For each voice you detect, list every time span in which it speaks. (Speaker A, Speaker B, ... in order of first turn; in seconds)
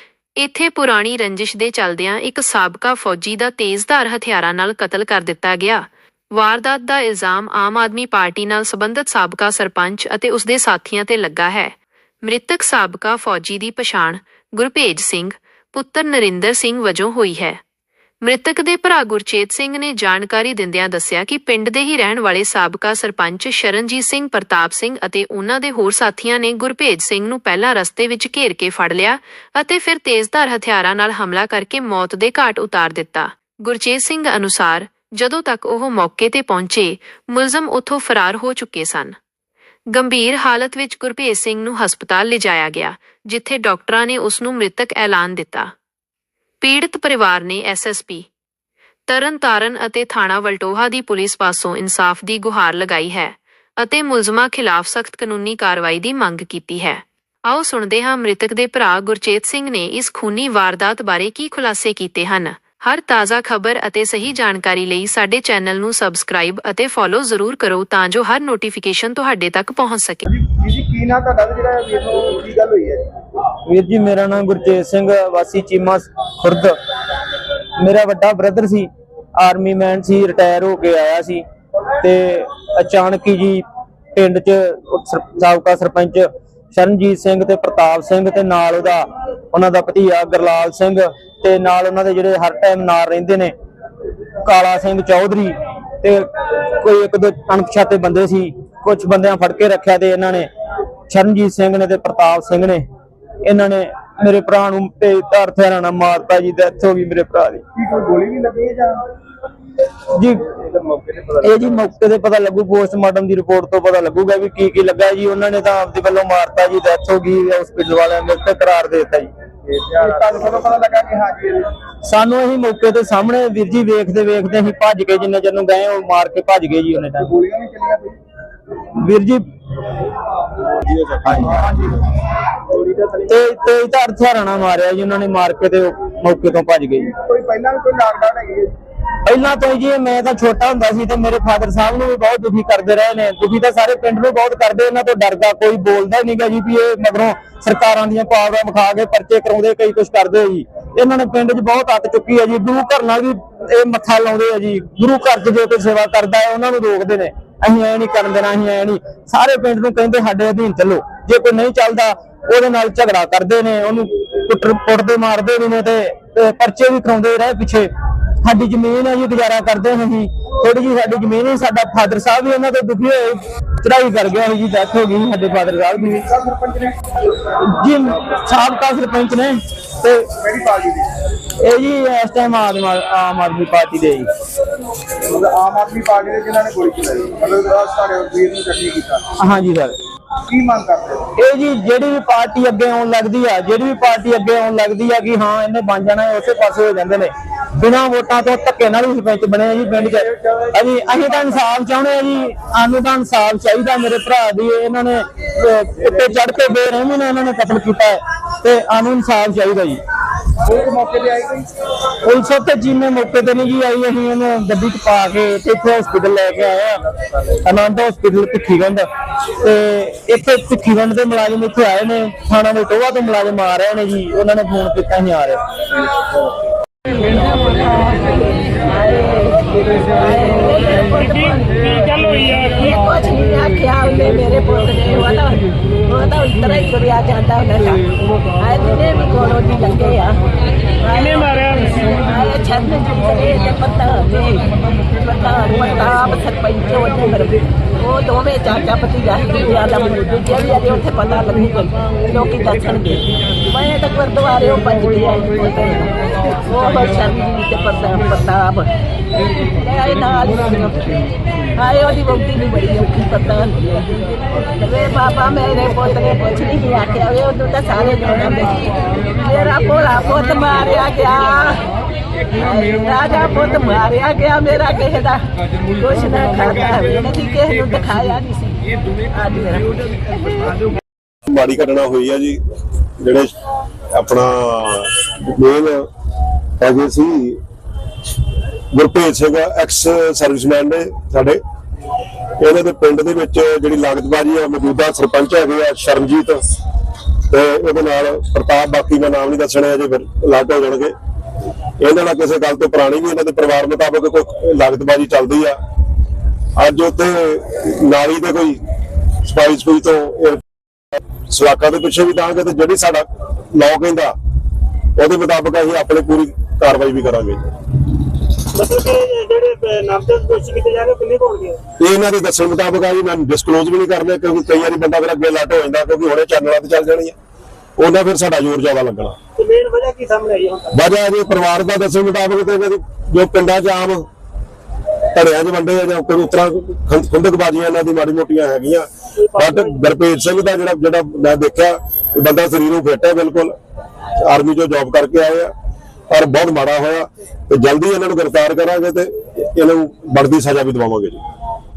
Speaker A: 0.4-17.6, 18.2-39.2, 39.9-45.7, 46.6-48.3, 49.1-70.2
Speaker B: 70.3-73.0, 107.8-109.0, 119.7-121.7, 127.2-128.2, 131.4-132.0, 137.0-138.7, 176.0-177.0, 180.4-181.1, 185.2-189.2, 190.5-191.3, 200.3-201.2, 206.0-206.4, 210.7-211.7
Speaker C: 73.7-76.8, 77.8-78.9, 79.4-81.4, 82.0-83.6, 84.2-93.5, 94.4-96.3, 96.8-100.5, 101.1-102.8, 103.4-107.6, 110.1-110.5, 111.4-119.3, 122.1-127.3, 129.0-129.4, 131.2-131.6, 133.3-137.1, 139.2-167.9, 168.4-176.2, 177.7-180.3, 181.6-184.3, 189.4-190.0, 191.4-210.0, 212.2-217.0, 217.6-219.1, 219.6-225.6
Speaker D: 227.1-240.4, 241.0-258.9, 259.8-264.3, 264.8-271.9, 272.5-275.5, 276.0-280.9
Speaker E: 281.5-282.6, 283.2-283.5, 284.1-286.1, 286.8-287.6, 288.9-291.6, 292.6-296.6, 297.5-301.1, 302.0-305.8, 306.8-308.8, 309.4-310.6, 311.5-314.4, 315.2-317.7, 322.0-327.4, 328.0-329.4, 330.9-334.3, 335.4-343.8, 344.4-345.7, 346.3-351.4
Speaker F: 318.8-321.4